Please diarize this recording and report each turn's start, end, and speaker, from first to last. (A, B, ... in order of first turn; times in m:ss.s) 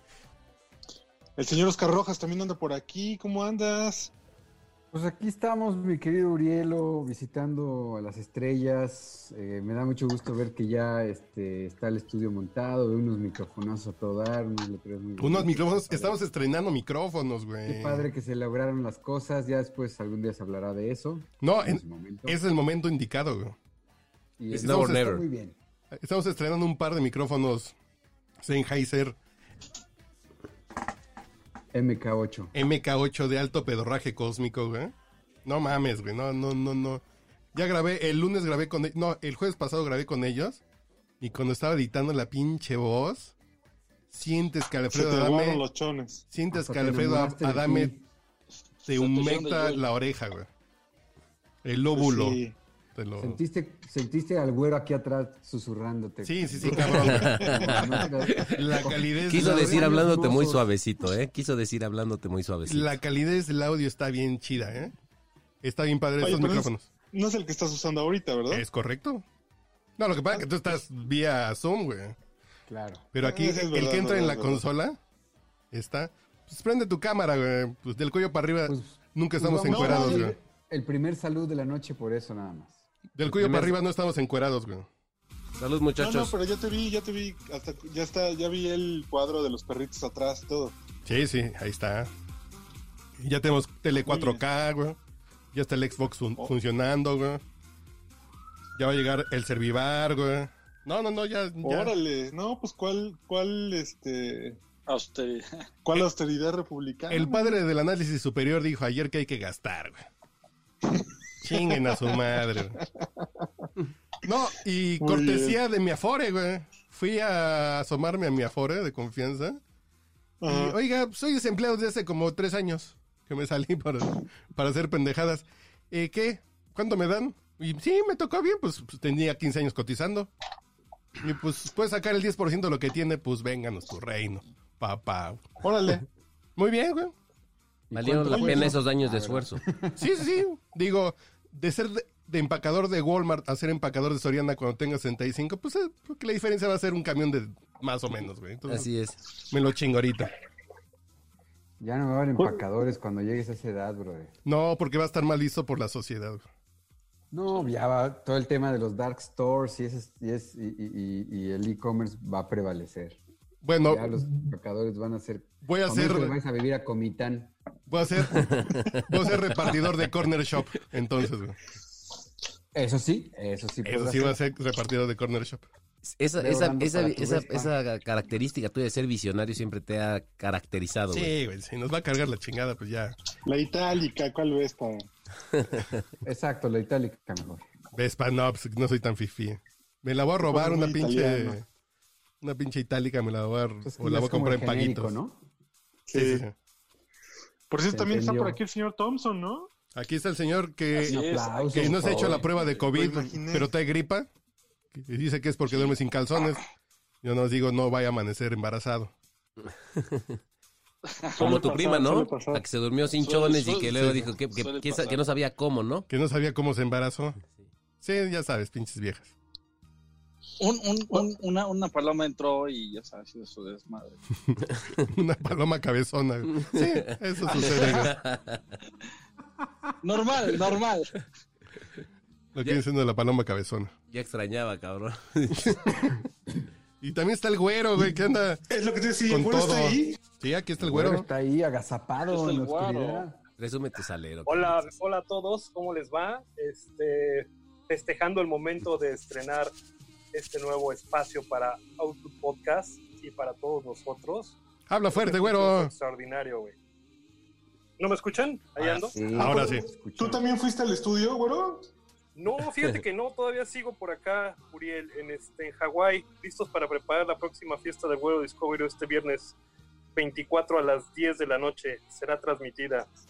0:01.4-0:04.1 A
0:04.9-0:16.2 B
0:15.2-0:18.1 C
0:17.6-0:22.4 B
0:21.4-0:23.6 C
0:24.4-0:25.6 B
0:24.5-0:25.2 D
0:24.6-0:25.0 C
0:25.9-0:27.8 C
0:28.4-0:29.2 C
0:31.7-0:32.5 B
0:32.5-0:34.9 C
0:35.4-0:37.0 C
0:37.5-0:40.6 C
0:41.2-0:43.3 C
0:44.1-0:45.6 C
0:44.9-0:46.2 A
0:46.3-0:47.9 C
0:46.5-0:48.0 B
0:48.8-0:49.8 E
0:48.9-0:50.5 C
0:51.6-0:52.4 C
0:51.9-0:52.6 A
0:52.9-0:53.4 C
0:53.2-1:00.6 B
0:56.2-0:57.7 C
0:57.0-0:57.8 D
0:57.2-0:58.0 A
0:58.3-1:02.9 D
0:58.4-1:00.2 C
1:02.6-1:04.9 C
1:05.6-1:06.9 C
1:06.2-1:08.6 A
1:08.5-1:09.2 C
1:10.0-1:12.2 C
1:12.7-1:13.1 B
1:13.1-1:15.0 C
1:13.2-1:14.6 A
1:15.7-1:20.4 C
1:18.7-1:22.8 B
1:19.6-1:20.3 A
1:23.1-1:24.9 C
1:23.2-1:23.8 D
1:25.6-1:26.4 D
1:26.0-1:30.8 A
1:31.0-1:32.1 C
1:33.2-1:35.0 C
1:34.0-1:34.4 A
1:35.5-1:37.4 C
1:38.7-1:41.9 C
1:41.6-1:44.6 A
1:44.9-1:45.6 E
1:45.8-1:47.6 A
1:47.1-1:50.0 C
1:51.4-1:52.8 C
1:51.5-1:51.8 A
1:53.2-1:53.4 A
1:54.2-1:59.6 C
1:55.0-1:55.6 A
2:00.4-2:00.7 A
2:00.4-2:10.3 C
2:11.2-2:15.5 C
2:15.6-2:16.0 A
2:16.6-2:17.1 C
2:17.9-2:20.0 B
2:17.9-2:19.6 D
2:18.4-2:18.7 C
2:20.0-2:28.9 C
2:28.7-2:29.2 D
2:29.5-2:30.3 C
2:31.8-2:34.3 B
2:34.4-2:36.4 C
2:37.3-2:43.2 B
2:43.6-2:44.3 C
2:43.9-2:47.5 B
2:45.6-2:46.4 C
2:47.9-2:51.6 C
2:52.7-2:54.4 B
2:53.8-2:55.6 C
2:56.0-3:01.3 D
2:56.4-2:57.7 B
3:01.1-3:03.2 C
3:03.4-3:05.1 A
3:06.2-3:07.6 B
3:07.9-3:11.6 C
3:10.4-3:11.6 A
3:12.4-3:15.2 C
3:13.8-3:15.4 B
3:16.1-3:16.4 A
3:16.1-3:16.5 C
3:17.7-3:19.7 A
3:17.9-3:18.6 B
3:19.9-3:24.3 C
3:20.9-3:22.4 E
3:21.1-3:22.5 B
3:22.9-3:23.7 A
3:24.9-3:26.6 C
3:27.2-3:29.1 C
3:30.0-3:30.4 D
3:31.2-3:31.6 E
3:31.4-3:32.6 A
3:31.4-3:36.1 D
3:33.2-3:35.2 E
3:36.1-3:37.4 C
3:38.0-3:39.3 C
3:40.6-3:44.2 E
3:45.0-3:48.1 C
3:46.6-3:48.8 D
3:50.0-3:51.1 E
3:52.5-3:53.9 C
3:54.1-3:55.8 D
3:55.6-3:56.0 C
3:57.0-3:58.6 C
3:58.7-4:00.2 A
3:59.3-4:01.3 C
4:00.8-4:03.4 B
4:02.2-4:03.2 E
4:03.6-4:04.8 D
4:04.5-4:09.7 F
4:10.3-4:14.6 F
4:14.9-4:15.9 C
4:15.1-4:16.7 F
4:18.0-4:19.2 F
4:18.9-4:20.5 B
4:19.3-4:19.9 C
4:20.2-4:21.9 A
4:22.3-4:29.6 F
4:30.1-4:33.1 F